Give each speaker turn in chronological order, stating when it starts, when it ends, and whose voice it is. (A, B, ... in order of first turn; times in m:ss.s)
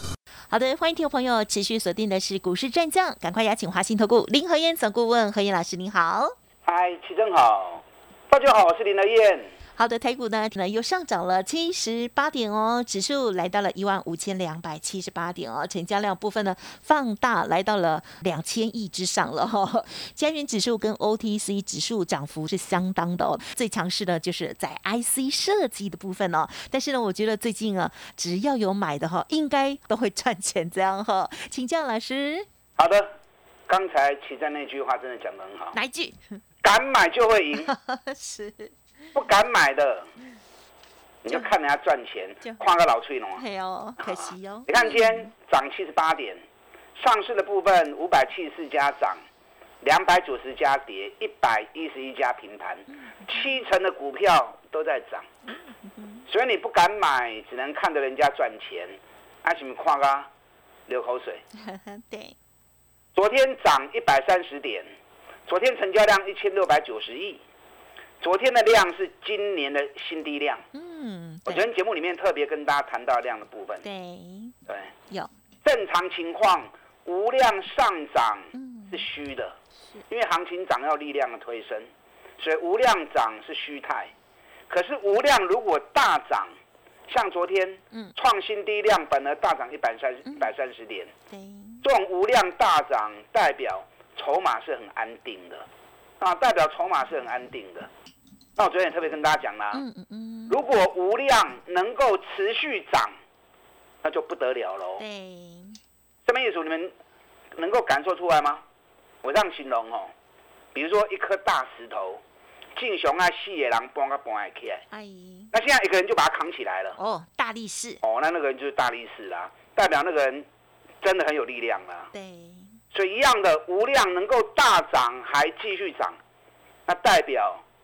0:00.5-0:06.4 A
0:06.6-0:09.5 B
0:09.8-0:32.5 A
0:32.8-0:33.1 B
0:33.7-0:35.8 B
0:35.7-0:36.4 A
0:36.6-0:37.7 B
0:37.6-0:38.8 A
0:39.1-0:40.1 B
0:41.2-0:43.4 B
0:43.4-0:45.3 A
0:44.0-0:46.4 B
0:47.0-0:49.2 B
0:49.8-0:55.3 B
0:52.9-0:53.6 A
0:55.5-0:56.3 A
0:56.3-1:00.3 B
1:00.9-1:01.4 B
1:01.6-1:02.4 A
1:03.2-1:04.9 B
1:05.5-1:07.4 B
1:08.2-1:10.6 B
1:10.7-1:11.7 A
1:11.5-1:13.8 B
1:13.8-1:14.6 A
1:14.7-1:14.9 B
1:15.6-1:19.6 B
1:18.5-1:19.0 A
1:20.1-1:21.9 B
1:22.4-1:24.1 B
1:24.7-1:26.5 B
1:27.1-1:31.1 B
1:31.3-1:31.8 A
1:31.8-1:35.7 B
1:36.2-1:37.9 B
1:38.6-1:39.8 B
1:39.7-1:40.6 A
1:40.5-1:43.2 B
1:44.0-1:45.0 B
1:45.0-1:45.8 A
1:46.3-1:46.9 B
1:47.6-1:48.6 B
1:49.2-1:50.1 B
1:50.7-1:52.2 B
1:52.8-1:54.8 B
1:54.9-1:55.5 A
1:55.5-1:57.0 B
1:57.0-1:58.0 A
1:58.0-2:00.5 B
2:01.0-2:02.1 B
2:02.1-2:02.8 A
2:02.9-2:06.2 B
2:06.9-2:07.6 B